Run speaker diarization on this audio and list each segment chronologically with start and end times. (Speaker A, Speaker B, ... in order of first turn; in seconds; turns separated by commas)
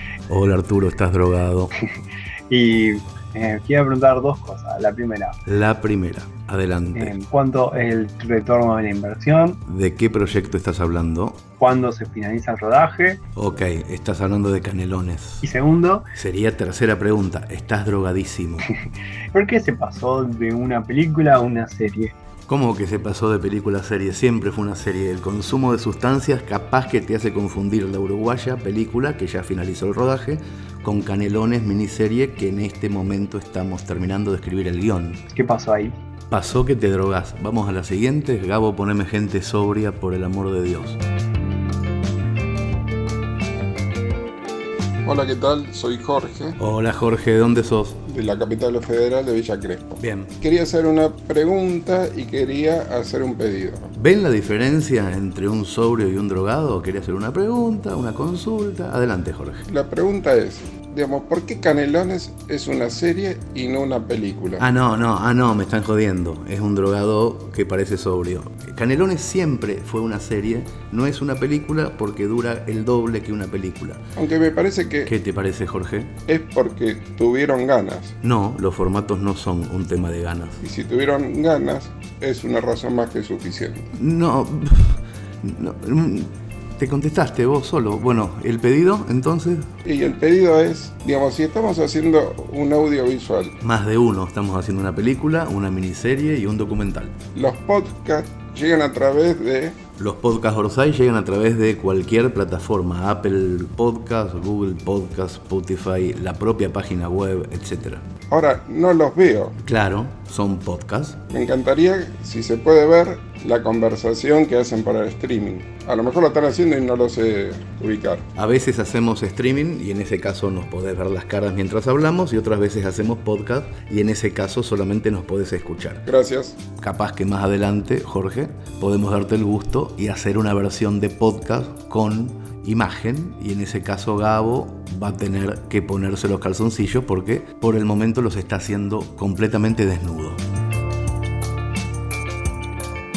Speaker A: 0.3-1.7, Speaker B: 2.5-5.3, Speaker A: 5.5-7.2, Speaker B: 6.9-9.6, Speaker A: 9.7-11.4, Speaker B: 11.6-13.2, Speaker A: 13.3-15.5, Speaker B: 15.4-16.0, Speaker A: 16.2-18.7, Speaker B: 19.3-22.1, Speaker A: 22.5-35.2, Speaker B: 35.3-35.9, Speaker A: 36.3-41.0, Speaker C: 45.0-46.5, Speaker A: 46.6-48.0, Speaker C: 48.1-53.9, Speaker A: 50.0-50.3, Speaker A: 54.0-59.6, Speaker C: 59.7-64.7, Speaker A: 64.6-74.0, Speaker C: 74.2-75.1, Speaker A: 75.0-76.1, Speaker C: 76.3-78.1, Speaker A: 78.2-80.6, Speaker C: 80.6-83.8, Speaker A: 83.9-89.7, Speaker C: 89.8-93.5, Speaker A: 93.6-97.1, Speaker C: 97.3-99.8, Speaker A: 100.0-108.0, Speaker C: 108.3-109.5, Speaker A: 109.6-111.2, Speaker C: 111.3-118.2, Speaker A: 118.3-126.0, Speaker C: 126.0-126.6, Speaker A: 126.8-140.4